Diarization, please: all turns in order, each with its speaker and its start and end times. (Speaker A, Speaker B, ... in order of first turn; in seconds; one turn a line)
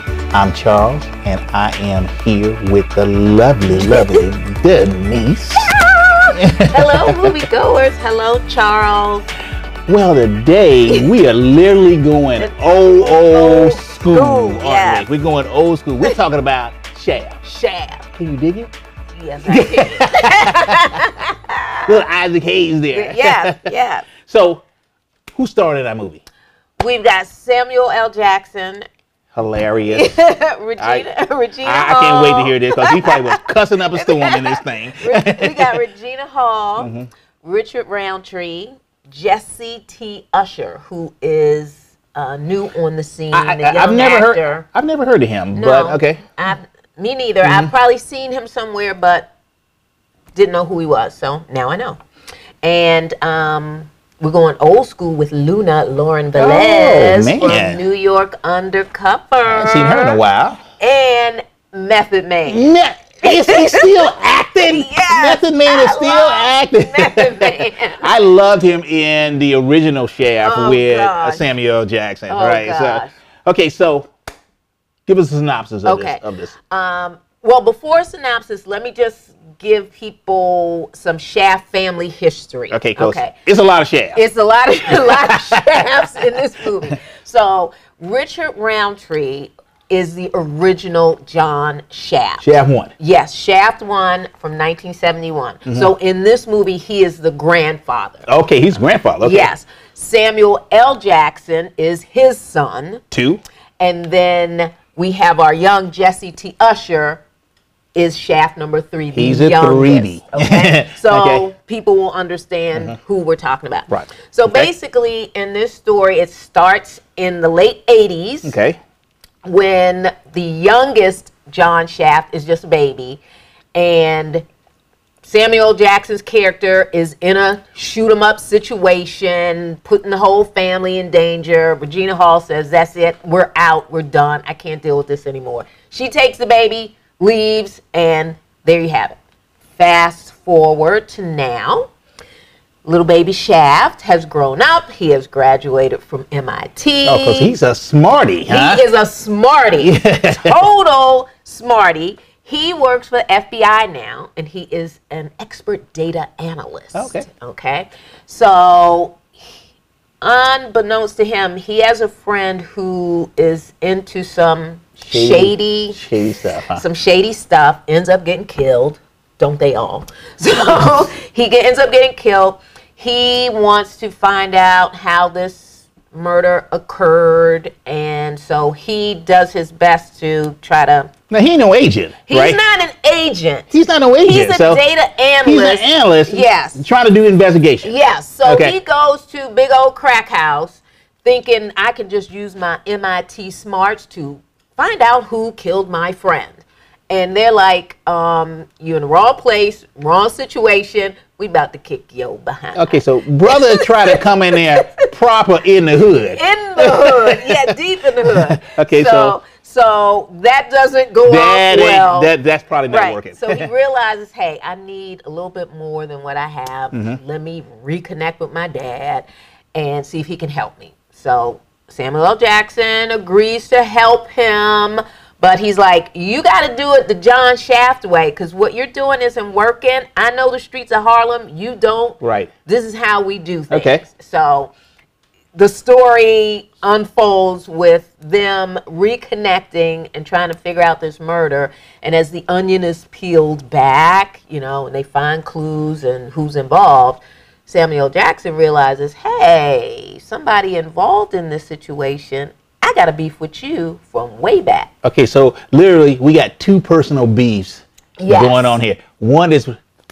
Speaker A: 0.3-5.7
Speaker B: 3.8-4.2
Speaker B: 5.6-9.2
Speaker A: 6.3-7.4
Speaker A: 9.9-17.4
Speaker B: 12.4-15.1
Speaker B: 17.4-18.1
Speaker A: 18.1-18.7
Speaker B: 19.1-21.9
Speaker A: 19.4-20.9
Speaker A: 21.9-23.7
Speaker B: 22.9-24.1
Speaker A: 24.2-24.6
Speaker A: 25.3-26.2
Speaker B: 26.8-28.8
Speaker A: 29.3-30.1
Speaker B: 29.9-36.9
Speaker A: 30.8-31.1
Speaker A: 31.6-35.8
Speaker A: 36.8-37.1
Speaker B: 37.4-44.6
Speaker A: 43.3-46.2
Speaker B: 45.5-49.3
Speaker A: 47.4-47.7
Speaker B: 50.3-52.0
Speaker B: 52.6-60.2
Speaker A: 56.3-57.8
Speaker A: 59.5-60.6
Speaker B: 60.8-62.7
Speaker A: 62.4-74.1
Speaker B: 63.2-68.1
Speaker B: 70.4-71.5
Speaker B: 72.3-73.1
Speaker A: 75.1-76.5
Speaker B: 75.8-83.3
Speaker A: 82.7-84.2
Speaker B: 84.1-92.4
Speaker A: 84.8-86.4
Speaker A: 92.4-92.9
Speaker B: 93.0-98.3
Speaker A: 98.2-99.5
Speaker B: 99.2-103.0
Speaker A: 103.1-103.4
Speaker B: 103.8-107.2
Speaker B: 107.9-118.5
Speaker A: 109.1-111.5
Speaker A: 113.9-114.7
Speaker A: 118.4-118.8
Speaker B: 119.4-123.2
Speaker B: 123.7-124.4
Speaker B: 125.2-139.2
Speaker B: 139.8-141.9
Speaker B: 142.8-147.6
Speaker A: 147.0-148.8
Speaker B: 148.5-159.3
Speaker A: 149.8-150.6
Speaker A: 156.9-157.3
Speaker B: 160.2-166.0
Speaker A: 165.0-166.8
Speaker B: 166.7-181.1
Speaker A: 181.3-182.6
Speaker B: 182.3-186.8
Speaker A: 183.7-184.8
Speaker A: 185.4-188.8
Speaker B: 187.8-205.0
Speaker A: 202.7-207.7
Speaker B: 206.3-212.3
Speaker A: 208.3-209.3
Speaker A: 211.2-213.7
Speaker B: 212.9-234.7
Speaker A: 216.9-217.2
Speaker A: 232.2-232.5
Speaker A: 233.7-234.0
Speaker B: 235.5-254.9
Speaker A: 255.0-259.7
Speaker B: 258.2-258.8